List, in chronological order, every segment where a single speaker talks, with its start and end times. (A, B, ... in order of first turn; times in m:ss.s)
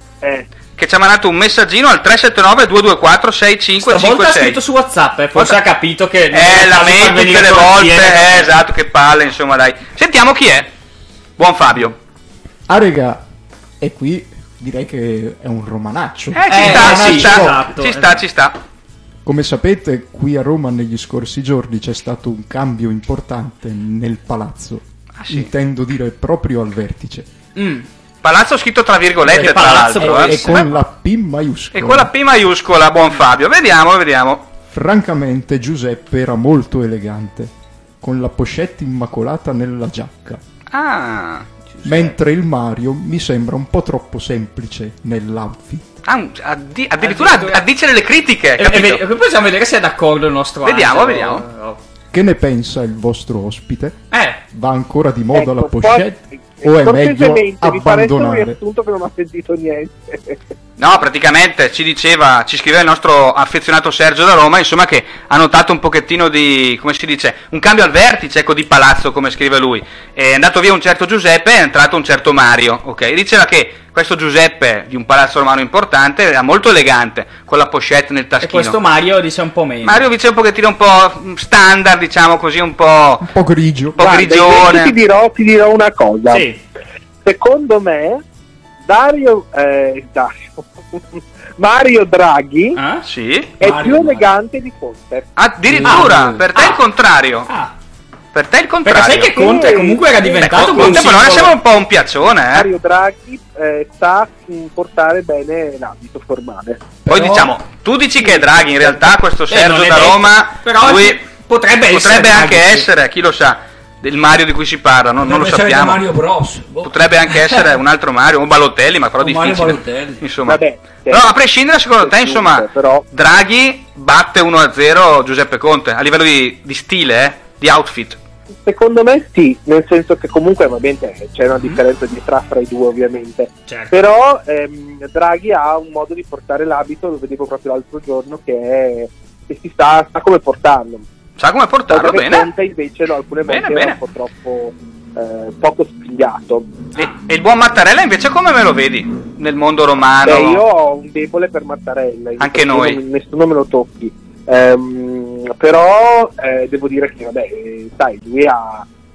0:00.2-0:00.5 A
0:00.8-0:04.6 B
0:03.8-0:08.6 C
0:05.4-0:05.6 B
0:06.3-0:10.7 B
0:11.4-0:12.0 B
0:12.7-0:13.2 D
0:13.8-0:17.7 D
0:16.3-0:18.6 B
0:16.5-0:18.2 C
0:19.2-0:27.3 D
0:25.2-0:25.5 B
0:27.6-0:27.8 C
0:28.2-0:30.6 B
0:29.2-0:30.6 C
0:30.0-0:30.3 E
0:30.0-0:32.1 D
0:31.7-0:34.5 B
0:34.7-0:40.4 D
0:40.7-0:41.5 B
0:41.7-0:42.1 C
0:41.8-0:45.9 D
0:46.0-0:49.0 B
0:47.0-0:47.6 C
0:48.6-0:51.8 C
0:50.6-0:51.4 B
0:52.1-0:54.0 D
0:54.1-0:54.4 C
0:54.5-0:58.6 D
0:55.3-1:00.4 A
1:00.8-1:18.8 B
1:18.4-1:20.0 C
1:19.8-1:23.2 B
1:23.2-1:24.0 D
1:23.9-1:24.9 B
1:24.0-1:26.4 A
1:26.3-1:26.6 C
1:27.2-1:28.2 A
1:28.8-1:32.8 A
1:32.8-1:33.0 C
1:33.0-1:33.5 B
1:33.6-1:35.3 A
1:33.6-1:34.3 E
1:35.4-1:37.5 B
1:35.7-1:36.4 E
1:35.8-1:36.8 C
1:38.3-1:39.4 B
1:38.8-1:41.5 C
1:39.3-1:41.1 A
1:40.4-1:42.7 B
1:42.5-1:46.8 A
1:47.0-1:47.5 E
1:47.1-1:51.2 B
1:48.2-1:49.1 A
1:49.5-1:52.9 C
1:51.8-1:56.0 B
1:55.2-1:57.2 E
1:56.8-2:08.2 B
1:59.2-2:00.3 E
2:00.4-2:01.3 A
2:02.0-2:03.0 A
2:08.6-2:21.0 A
2:13.7-2:13.9 C
2:21.4-2:22.5 B
2:21.9-2:26.7 A
2:23.4-2:24.0 B
2:27.0-2:30.6 B
2:30.2-2:38.8 A
2:32.4-2:33.0 B